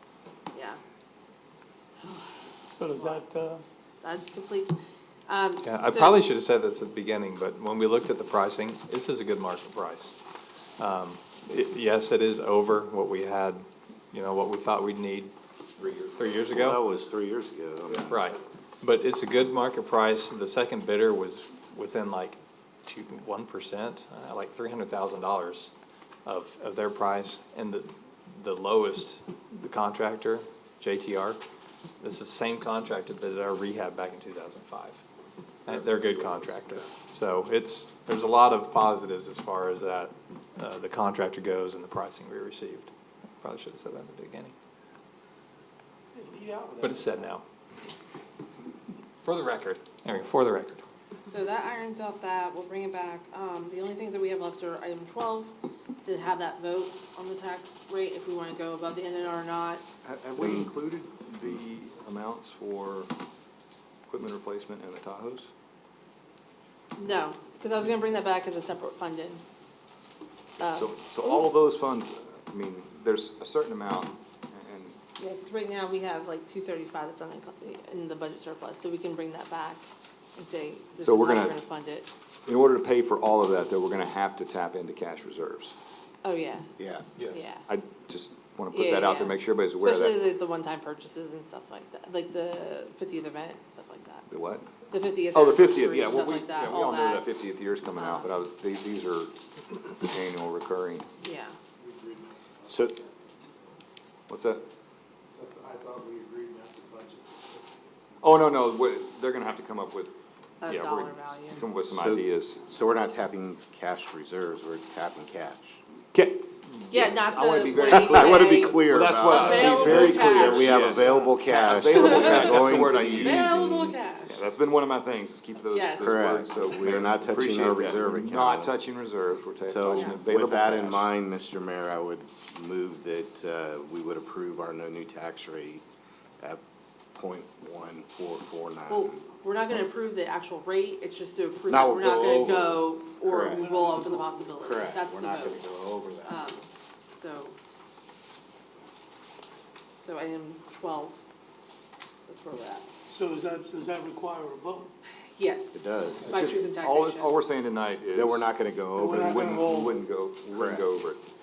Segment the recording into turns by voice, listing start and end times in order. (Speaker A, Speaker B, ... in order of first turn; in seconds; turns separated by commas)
Speaker A: 0.5-0.8, Speaker B: 2.7-3.6, Speaker A: 3.0-3.2, Speaker A: 4.0-4.7, Speaker A: 5.3-6.2, Speaker C: 5.6-10.2, Speaker C: 10.8-15.3, Speaker D: 15.8-16.4, Speaker C: 16.1-16.8, Speaker E: 16.4-18.1, Speaker C: 18.1-25.7, Speaker C: 26.3-31.4, Speaker C: 32.0-35.0, Speaker C: 35.7-44.5, Speaker B: 46.1-47.2, Speaker C: 46.8-47.4, Speaker C: 49.2-50.8, Speaker A: 51.3-55.5, Speaker A: 56.0-59.8, Speaker D: 60.0-63.1, Speaker D: 64.1-65.5, Speaker A: 67.0-69.4, Speaker A: 70.6-71.5, Speaker D: 70.7-75.0, Speaker A: 75.2-79.8, Speaker A: 80.4-82.1, Speaker D: 81.0-81.5, Speaker D: 82.5-85.8, Speaker A: 86.2-86.7, Speaker E: 86.8-87.0, Speaker C: 87.2-87.5, Speaker A: 87.3-87.7, Speaker D: 87.7-90.2, Speaker A: 88.7-94.3, Speaker D: 94.3-94.7, Speaker A: 94.9-97.3, Speaker D: 95.3-101.1, Speaker A: 98.0-98.3, Speaker A: 101.2-101.6, Speaker F: 101.8-102.9, Speaker E: 102.7-103.0, Speaker D: 104.3-104.7, Speaker F: 105.3-107.6, Speaker D: 108.2-112.6, Speaker A: 110.6-111.6, Speaker E: 111.9-115.8, Speaker D: 116.1-131.1, Speaker A: 116.9-124.3, Speaker E: 117.7-123.5, Speaker A: 125.7-126.2, Speaker E: 126.0-128.8, Speaker E: 129.6-135.8, Speaker E: 137.1-139.2, Speaker A: 138.9-145.6, Speaker E: 141.7-143.7, Speaker B: 143.5-144.5, Speaker E: 144.6-146.5, Speaker A: 146.2-147.6, Speaker A: 150.0-151.2, Speaker A: 152.3-152.9, Speaker B: 153.1-154.9, Speaker A: 155.4-157.3, Speaker E: 155.7-156.4, Speaker D: 156.3-158.5, Speaker E: 158.1-159.5, Speaker B: 158.9-160.0, Speaker D: 159.2-161.2, Speaker E: 160.5-160.9